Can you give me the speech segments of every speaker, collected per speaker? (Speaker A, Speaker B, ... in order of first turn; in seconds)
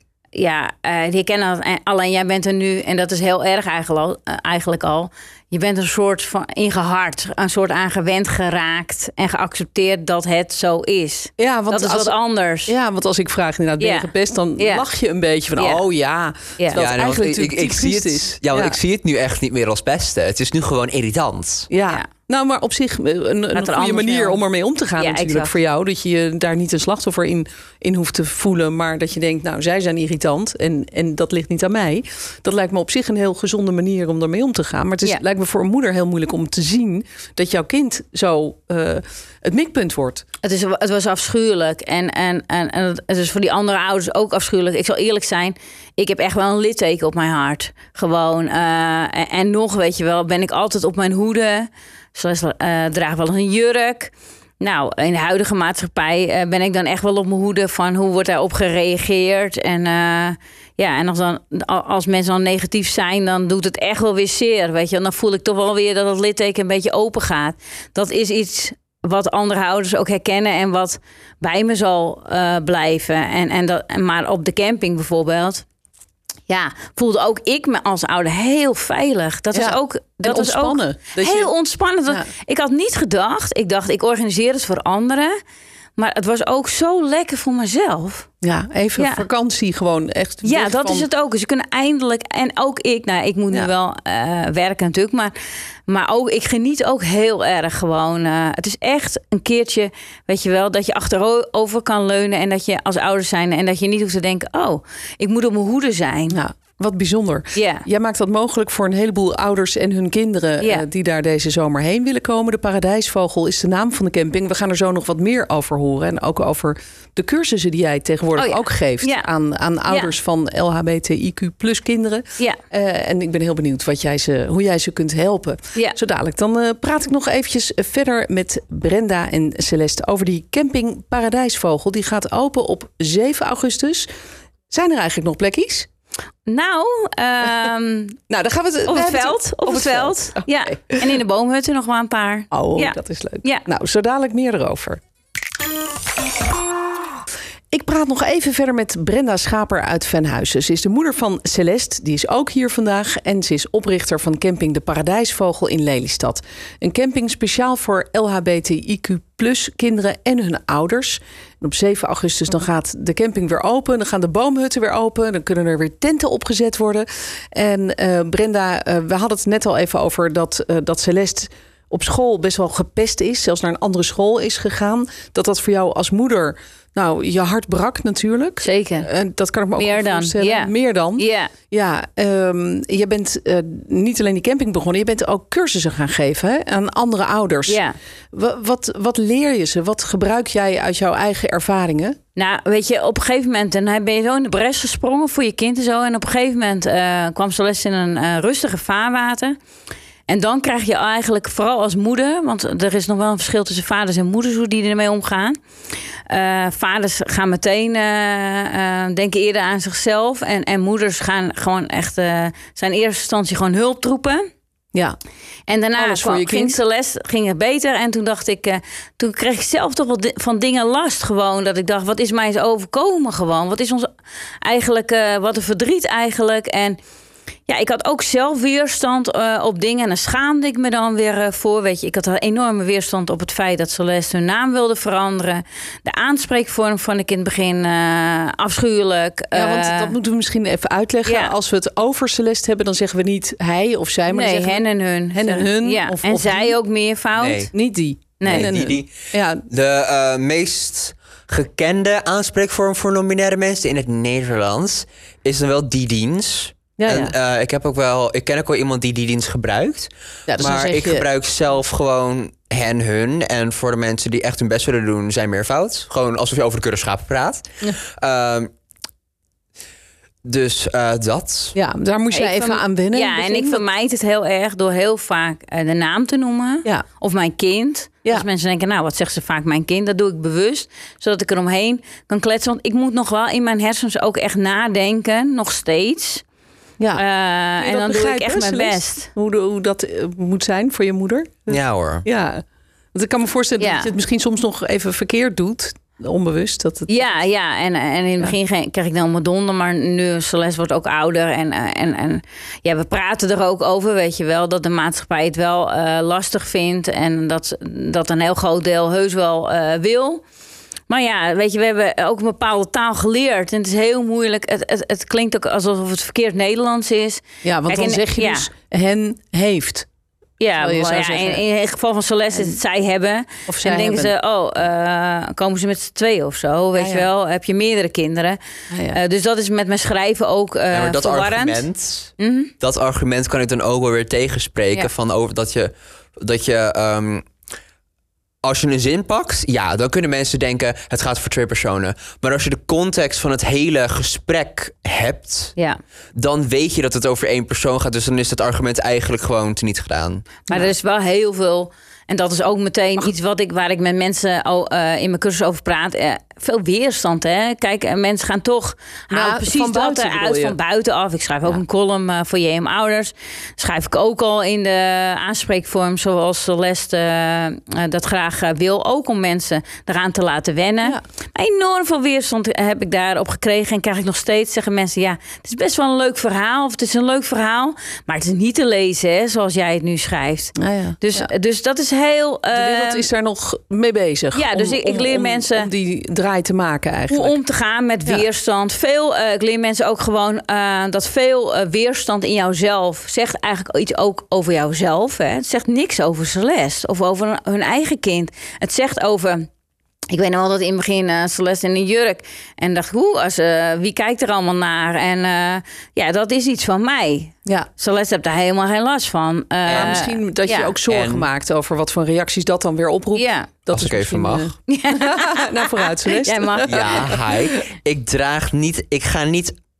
Speaker A: 0.3-12.7, 13.8-14.8, 15.6-15.8, 23.5-24.4, 25.0-25.5, 40.4-75.6, 76.5-85.3, 86.0-88.3, 89.0-89.2, 90.4-95.3, 95.9-106.4, 107.5-107.8, 118.3-119.2, 136.4-138.2, 138.8-143.6, 178.6-179.1, 179.8-181.5, 187.7-187.9, 192.3-199.6, 200.3-205.6, 206.3-214.4, 215.7-224.1, 224.6-227.0, 227.7-240.1, 241.2-241.5, 244.3-247.7, 248.4-248.7, 272.3-286.4, 287.1-289.3, 293.8-294.1, 297.1-310.4, 311.1-318.7, 320.6-331.9, 332.4-332.7, 350.7-383.3, 384.5-385.9, 387.3-399.7, 400.3-410.9, 413.3-413.7, 414.9-417.4
Speaker B: 11.4-12.2, 12.7-18.8, 21.7-40.2, 79.5-81.5, 88.4-91.1, 106.3-134.1, 134.7-135.9, 138.3-141.1, 142.5-145.0, 147.7-187.8, 188.3-192.2, 216.0-216.8, 239.5-246.8, 247.7-249.6, 257.0-257.3, 260.5-261.3, 271.7-273.8, 287.8-292.6, 293.1-297.1, 317.6-320.1, 320.8-321.6, 323.7-324.3, 326.9-327.3, 328.9-329.2, 359.3-360.8, 380.8-381.5, 382.7-387.6, 409.9-417.7
Speaker C: 16.7-21.7, 247.4-247.7, 248.4-268.7, 270.4-271.7, 291.7-292.2, 330.9-337.4, 338.6-345.7, 346.3-350.6, 411.1-411.5, 413.9-414.7, 416.9-419.7